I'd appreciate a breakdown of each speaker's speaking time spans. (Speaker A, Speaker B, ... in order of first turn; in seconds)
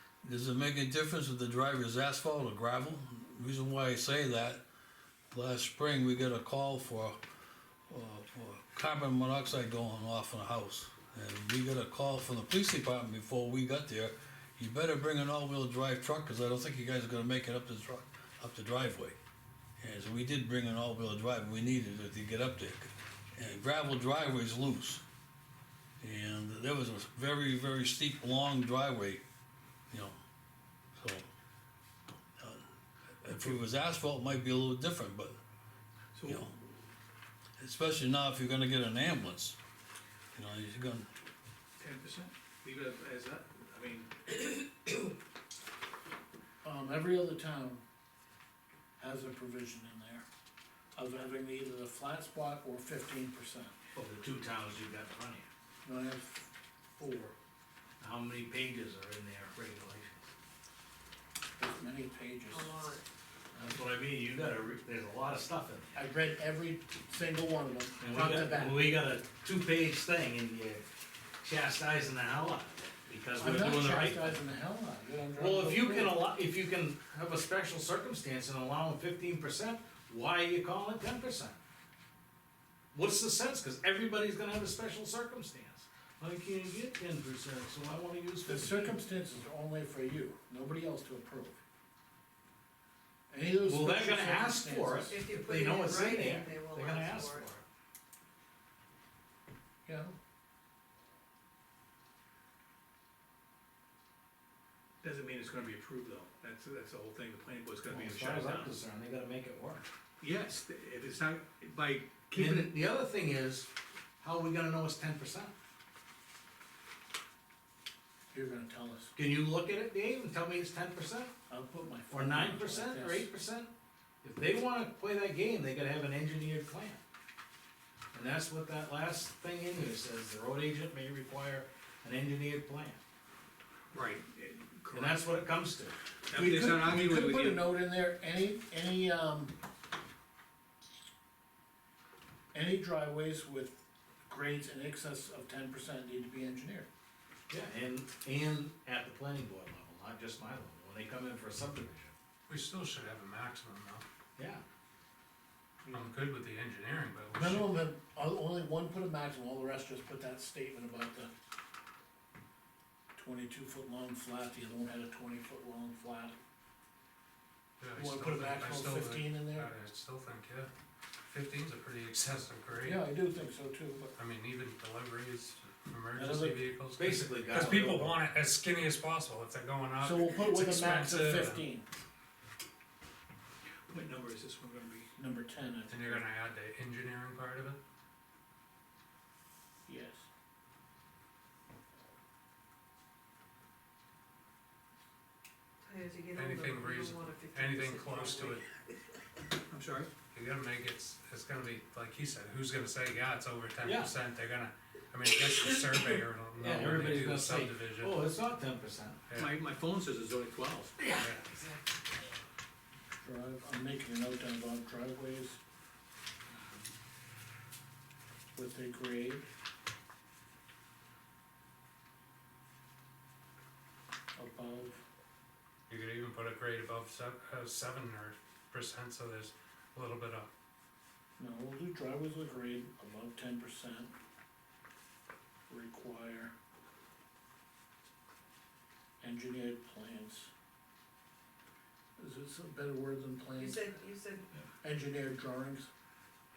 Speaker A: 0.2-4.6, 5.3-7.2, 7.9-19.2, 19.8-25.0, 26.0-29.2, 29.9-30.2, 31.0-31.3, 33.2-35.4, 36.3-36.5, 37.6-39.6, 40.4-41.1
Speaker B: 36.1-36.5, 41.8-45.1, 105.0-108.8, 110.2-112.7, 133.9-135.3, 136.3-137.7, 183.9-185.1, 199.7-200.1, 209.3-211.0
Speaker C: 46.6-47.8, 49.0-50.2, 51.0-53.7, 55.8-57.4, 61.6-62.9, 66.0-68.9, 73.4-76.2, 88.5-91.6, 93.3-95.2, 99.9-100.1, 118.3-119.1, 121.5-123.3, 136.3-139.5, 142.5-146.9, 155.8-156.2, 157.3-161.3, 163.2-166.3, 167.9-169.7, 172.8-174.2, 176.1-176.7, 180.0-181.8, 185.2-186.3, 189.9-190.3, 213.2-215.6, 218.6-219.5, 224.4-225.0, 231.4-234.1, 235.7-236.5, 239.2-240.5, 242.2-244.0, 244.8-245.9
Speaker D: 54.0-55.5, 58.0-60.3, 63.6-66.1, 68.0-70.8, 71.4-74.4, 75.4-81.6, 82.9-89.0, 93.7-97.6, 107.9-109.9, 112.3-113.7, 114.2-115.5, 119.2-121.3, 122.1-123.7, 124.2-127.0, 128.1-133.0, 134.9-136.0, 147.5-152.1, 154.4-154.6, 176.9-178.2, 203.8-204.1, 206.6-209.3, 211.0-211.8
Speaker E: 62.5-63.0, 95.1-97.6, 195.8-198.6, 243.6-244.5
Speaker F: 152.5-154.1, 155.9-157.7, 167.8-170.7, 171.3-173.0, 174.2-181.7, 185.9-187.8, 196.3-198.7, 200.3-208.2, 209.3-209.6, 211.2-211.4, 225.9-230.5